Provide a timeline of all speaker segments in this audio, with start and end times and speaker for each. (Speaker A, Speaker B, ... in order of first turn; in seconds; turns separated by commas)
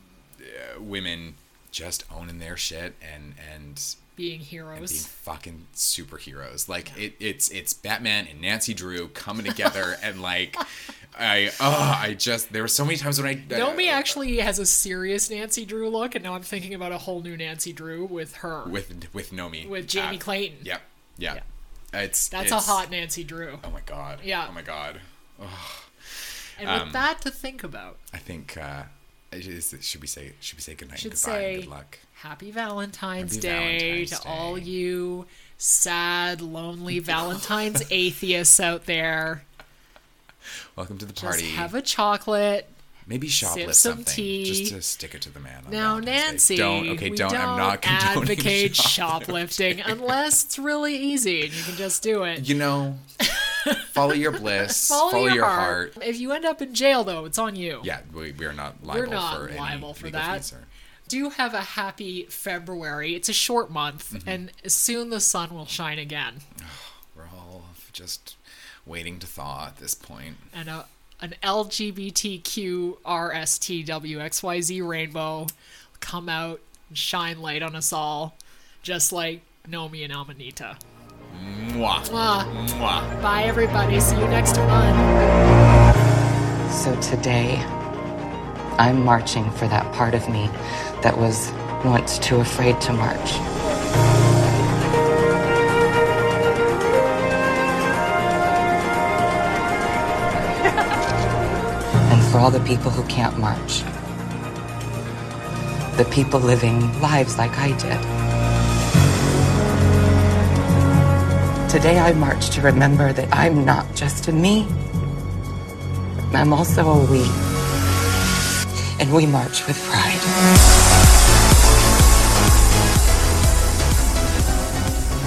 Speaker A: 0.4-4.0, Speaker B: 4.2-5.1, Speaker A: 4.7-14.2, Speaker B: 13.5-18.8, Speaker A: 18.6-22.9, Speaker B: 19.6-20.7, Speaker B: 22.3-23.7, Speaker A: 23.6-27.1, Speaker B: 24.2-24.5, Speaker B: 26.6-28.0, Speaker A: 28.1-32.0, Speaker B: 31.0-39.5, Speaker A: 33.2-34.8, Speaker A: 40.8-41.7, Speaker B: 41.2-42.7, Speaker A: 43.1-50.1, Speaker B: 43.4-44.8, Speaker B: 45.7-52.5, Speaker A: 52.4-53.1, Speaker B: 53.2-57.9, Speaker A: 53.7-56.0, Speaker A: 57.8-60.7, Speaker B: 58.8-60.5, Speaker B: 61.1-66.5, Speaker A: 64.1-64.4, Speaker A: 66.6-70.5, Speaker B: 70.5-80.8, Speaker A: 81.3-83.1, Speaker B: 82.1-82.5, Speaker B: 83.2-85.1, Speaker C: 86.7-87.7, Speaker C: 88.8-93.4, Speaker C: 102.1-103.8, Speaker C: 106.0-108.1, Speaker C: 111.7-114.7, Speaker C: 116.3-117.4, Speaker C: 119.0-120.3